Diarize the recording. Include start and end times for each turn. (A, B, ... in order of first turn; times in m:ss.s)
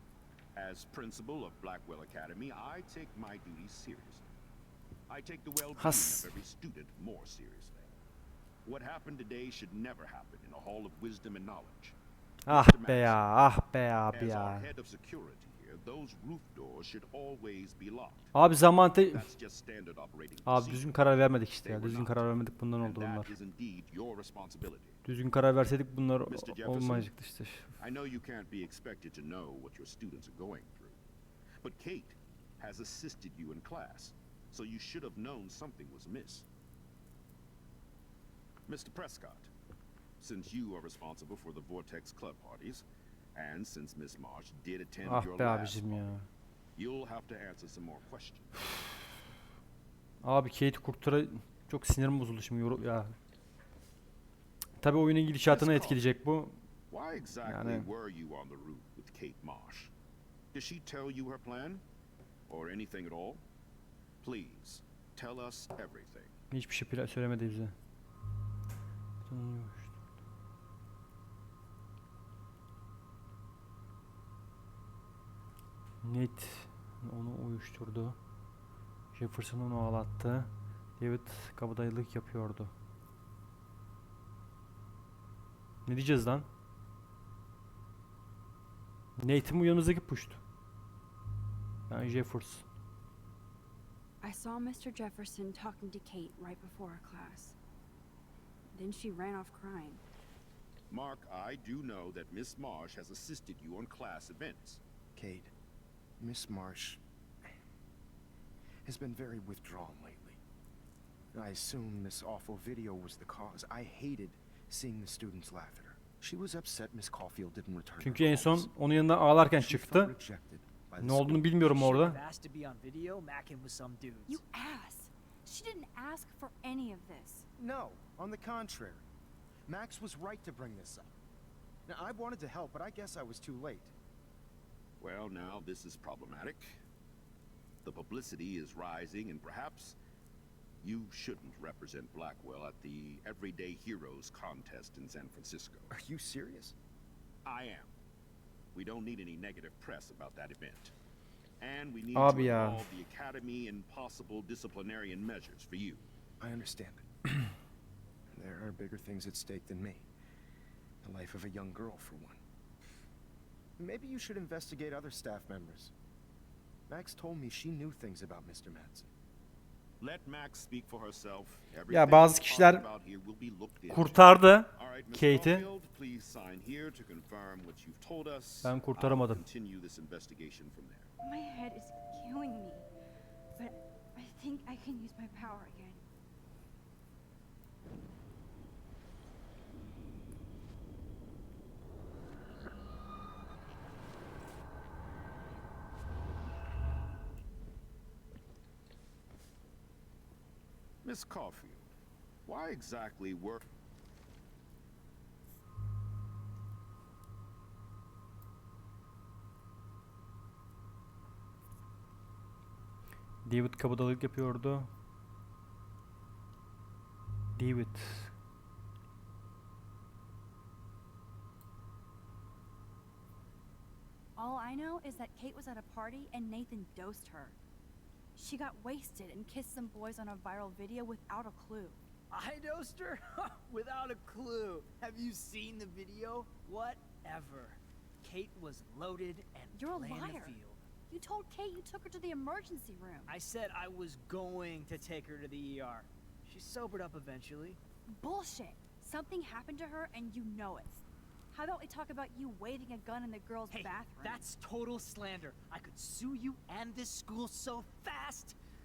0:00.5-0:04.3 A
0:05.1-0:07.9 A
0:05.8-0:06.3 B
0:08.6-0:12.0 A
0:12.5-0:14.7 B
0:12.5-0:13.2 A
0:14.1-0:18.3 A
0:18.3-0:19.3 B
0:19.1-0:20.9 A
0:20.4-0:23.3 B
0:21.6-0:22.3 A
0:22.8-0:25.0 A
0:25.0-0:27.7 B
0:26.2-0:27.1 A
0:27.8-0:31.0 A
0:31.6-0:36.5 A
0:38.7-0:39.5 A
0:40.2-0:46.1 A
0:45.0-0:46.3 B
0:46.8-0:48.6 A
0:50.2-0:53.2 B
0:54.8-0:56.6 B
0:55.5-0:56.0 A
0:56.9-0:59.9 A
0:57.4-0:57.9 B
1:00.5-1:01.8 A
1:02.5-1:03.4 A
1:04.2-1:06.3 A
1:06.5-1:07.8 B
1:09.3-1:09.9 B
1:16.0-1:18.2 B
1:19.1-1:22.7 B
1:25.9-1:26.5 B
1:29.2-1:30.4 B
1:31.9-1:32.6 B
1:34.2-1:37.6 C
1:38.7-1:40.0 C
1:40.9-1:44.8 A
1:45.2-1:45.5 D
1:46.2-1:47.0 D
1:48.8-1:50.4 D
1:51.3-1:58.7 D
1:58.0-2:00.1 B
1:59.5-2:01.5 D
2:01.0-2:02.2 B
2:01.6-2:04.4 E
2:04.3-2:07.5 C
2:07.6-2:09.0 D
2:09.7-2:11.1 D
2:11.9-2:13.9 D
2:15.0-2:16.8 A
2:17.8-2:20.0 A
2:20.8-2:25.9 A
2:25.9-2:26.8 D
2:27.4-2:27.9 A
2:28.7-2:30.9 A
2:31.6-2:36.0 A
2:32.1-2:32.8 B
2:36.4-2:37.6 D
2:38.3-2:40.1 D
2:41.0-2:42.4 D
2:43.8-2:45.9 D
2:46.9-2:49.1 D
2:50.0-3:01.1 A
2:51.9-2:52.8 B
2:53.9-2:55.7 B
2:58.6-2:59.4 B
3:01.2-3:02.9 C
3:03.6-3:06.0 C
3:21.0-3:21.9 A
3:22.5-3:23.6 A
3:33.4-3:34.9 B
3:37.6-3:38.3 B
3:44.4-3:47.6 C
3:48.4-3:52.0 C
3:52.3-4:00.8 E
3:59.7-4:00.6 C
4:01.1-4:03.3 C
4:03.3-4:07.8 E
4:08.1-4:14.5 C
4:13.7-4:18.6 E